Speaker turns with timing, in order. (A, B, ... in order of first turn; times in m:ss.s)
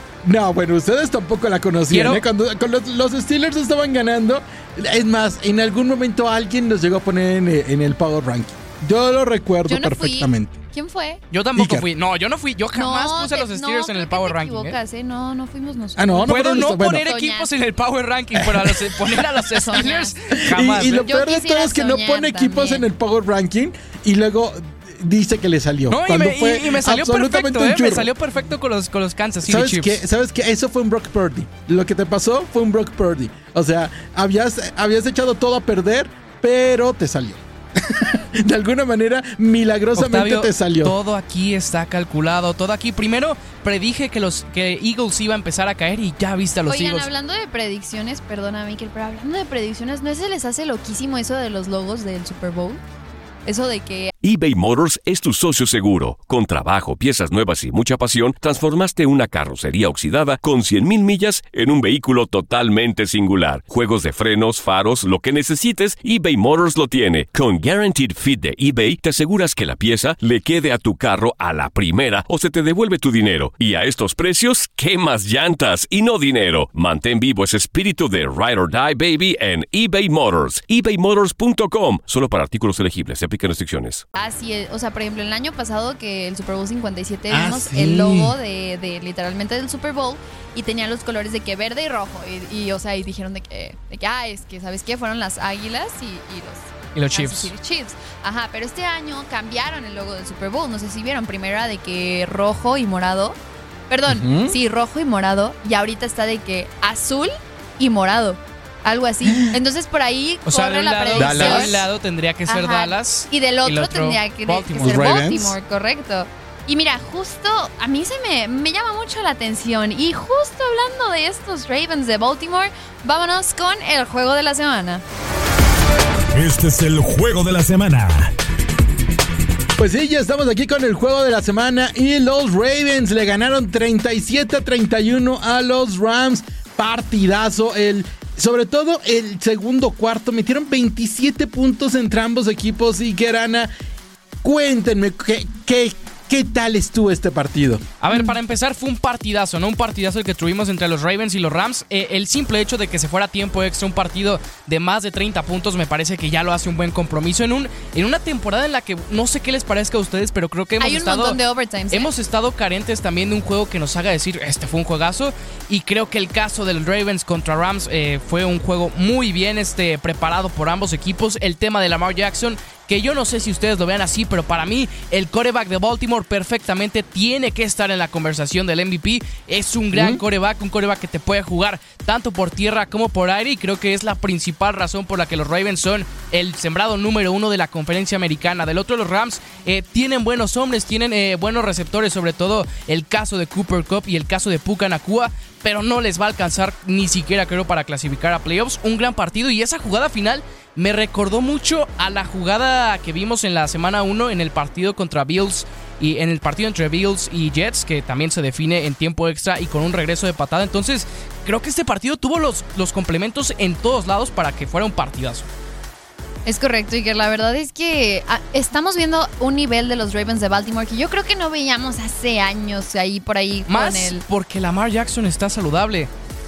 0:00.2-0:10.6 A
0:01.9-0:02.2 B
0:09.7-0:11.2 C
0:11.3-0:14.8 B
0:11.6-0:11.8 A
0:12.7-0:17.5 C
0:16.0-0:17.0 A
0:16.2-0:21.1 B
0:18.4-0:19.4 A
0:19.5-0:22.8 C
0:20.4-0:28.1 A
0:25.9-0:30.0 B
0:29.4-0:41.0 A
0:40.0-0:47.1 B
0:46.7-0:52.8 C
0:53.4-0:54.1 C
0:54.2-1:24.0 D
1:24.2-1:43.4 C
1:27.3-1:28.3 A
1:36.9-1:37.5 B
1:43.9-1:51.8 C
1:44.1-1:44.6 A
1:49.3-1:49.5 A
1:50.4-1:55.1 B
1:51.1-1:51.8 A
1:52.5-2:05.0 C
1:54.8-1:55.6 A
2:06.3-2:08.3 E
2:09.8-2:23.7 A
2:24.4-2:27.8 A
2:28.0-2:41.4 B
2:40.8-2:42.1 C
2:41.9-3:35.5 B
2:59.9-3:00.2 A
3:36.4-3:44.2 C
3:43.7-3:46.1 B